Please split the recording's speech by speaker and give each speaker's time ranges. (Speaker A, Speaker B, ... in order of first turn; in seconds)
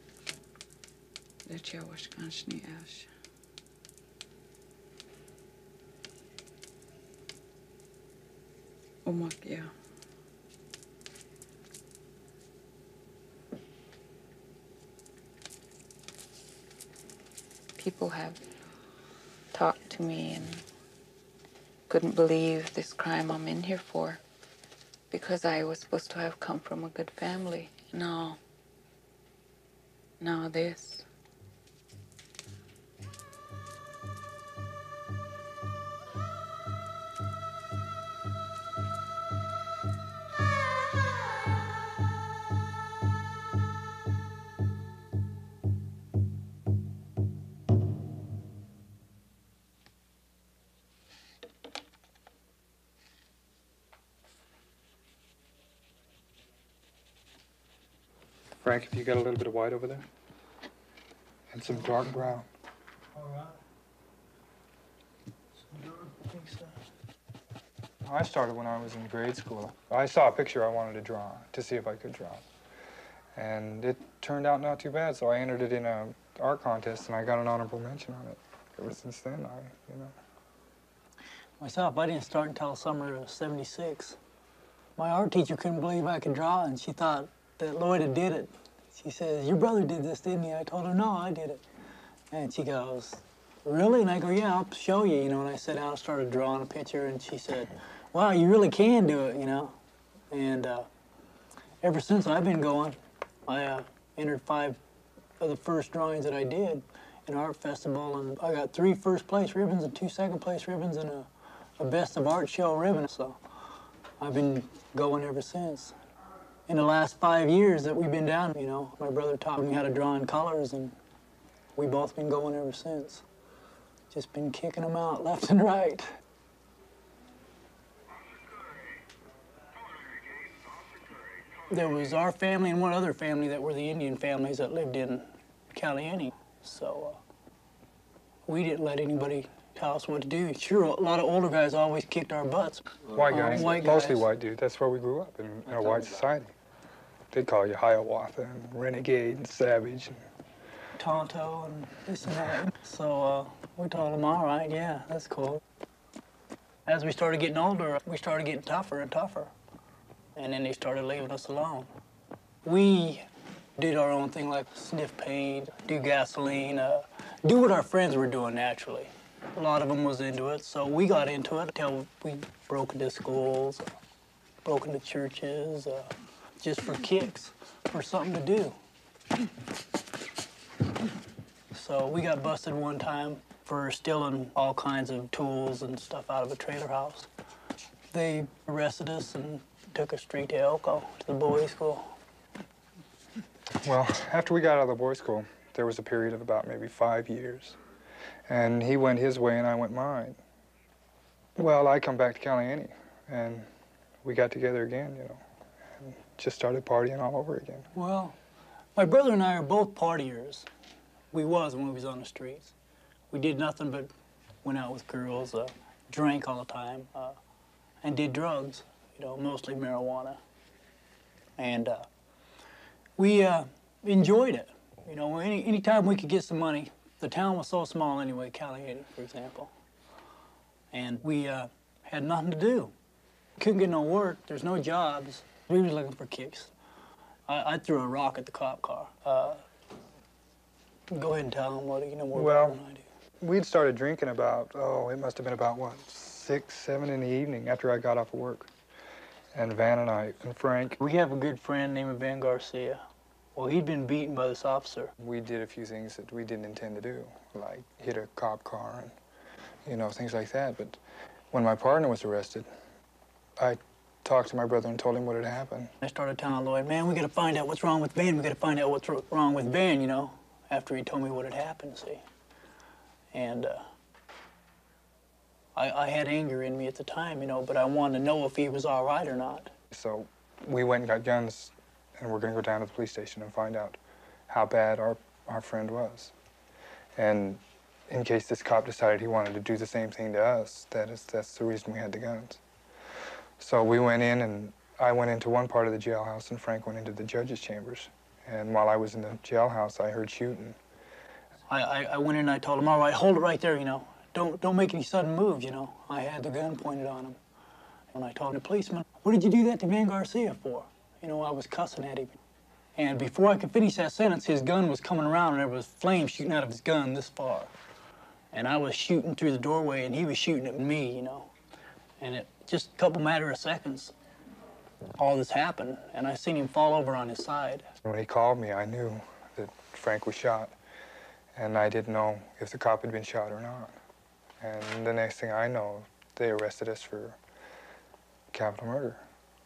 Speaker A: 1.4-3.1, 9.1-9.7, 17.8-18.4, 19.5-20.6, 21.9-24.2, 25.1-28.4, 30.2-31.1
Speaker B: 58.6-60.1, 61.5-62.5, 68.0-72.5, 73.3-80.1, 143.1-146.5, 147.3-150.2, 193.8-197.8, 198.5-200.4, 201.6-203.7, 204.2-205.4, 206.0-207.9, 242.3-242.8, 243.4-248.7, 249.5-251.0, 255.2-259.1, 259.9-261.0, 261.5-262.7, 263.6-265.9, 279.9-286.3, 287.2-292.6, 293.6-300.8, 328.1-330.7, 331.6-333.9, 334.6-337.4, 338.5-339.2
Speaker C: 63.2-63.5, 65.7-66.7, 81.6-84.2, 85.0-91.6, 92.3-99.7, 100.3-100.9, 101.8-104.8, 105.4-113.4, 114.2-116.0, 116.7-121.0, 121.8-123.2, 124.1-126.1, 131.7-137.2, 138.5-144.3, 145.7-146.1, 151.0-155.6, 156.9-159.5, 160.4-161.9, 162.6-163.3, 163.8-173.9, 174.6-178.8, 181.7-187.3, 188.1-192.1, 207.9-208.3, 208.9-210.7, 211.3-212.7, 213.3-214.1, 214.6-217.4, 218.0-220.4, 221.6-222.1, 223.2-229.7, 230.9-232.9, 233.6-236.7, 237.5-239.6, 241.1-243.0, 251.0-253.0, 253.6-255.1, 266.0-272.2, 273.3-273.8, 275.7-279.7, 301.7-307.4, 308.1-312.4, 312.9-317.7, 318.5-321.5, 322.2-324.1, 325.2-327.9